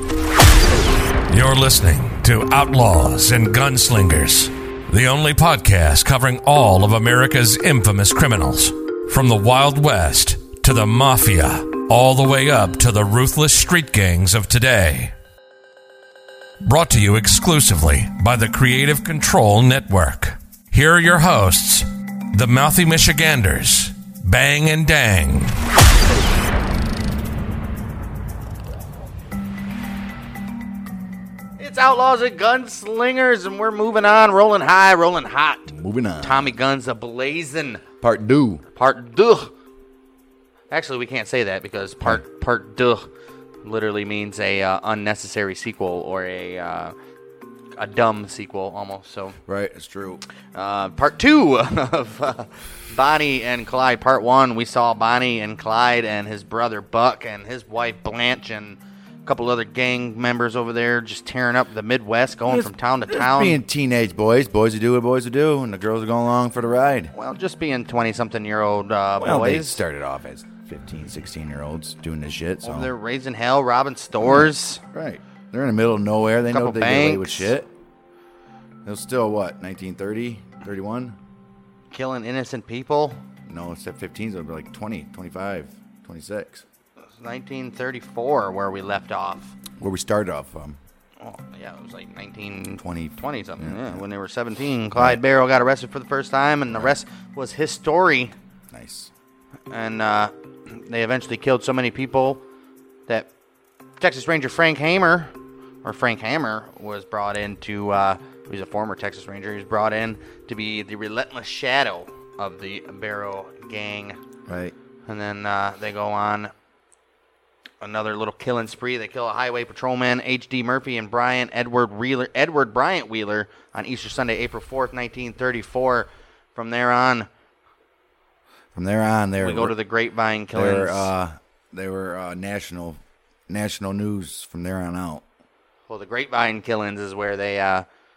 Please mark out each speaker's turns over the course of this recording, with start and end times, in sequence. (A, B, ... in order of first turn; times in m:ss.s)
0:01.3-0:15.1 A
0:16.6-0:25.6 A
0:31.6-0:37.8 B
0:35.7-0:36.5 C
0:38.0-0:38.6 C
0:38.7-0:39.5 B
0:40.7-0:43.1 B
0:43.6-0:47.0 B
0:47.8-0:49.4 B
0:49.4-0:50.2 C
0:50.5-1:03.6 B
1:02.5-1:07.1 C
1:07.2-1:09.8 B
1:09.2-1:12.9 C
1:12.6-1:14.8 B
1:14.2-1:17.7 C
1:16.5-1:17.5 B
1:18.8-1:21.2 C
1:21.9-1:23.2 B
1:23.5-1:26.6 C
1:27.2-1:29.5 B
1:29.8-1:30.8 C
1:31.2-1:38.3 B
1:32.8-1:34.0 C
1:38.7-1:39.1 C
1:39.7-1:42.4 B
1:44.0-1:45.3 B
1:45.8-1:54.2 B
1:54.5-1:54.7 C
1:55.1-1:56.5 B
1:57.8-2:07.3 B
2:08.7-2:09.8 C
2:09.4-2:11.1 B
2:10.5-2:15.2 C
2:15.9-2:17.8 B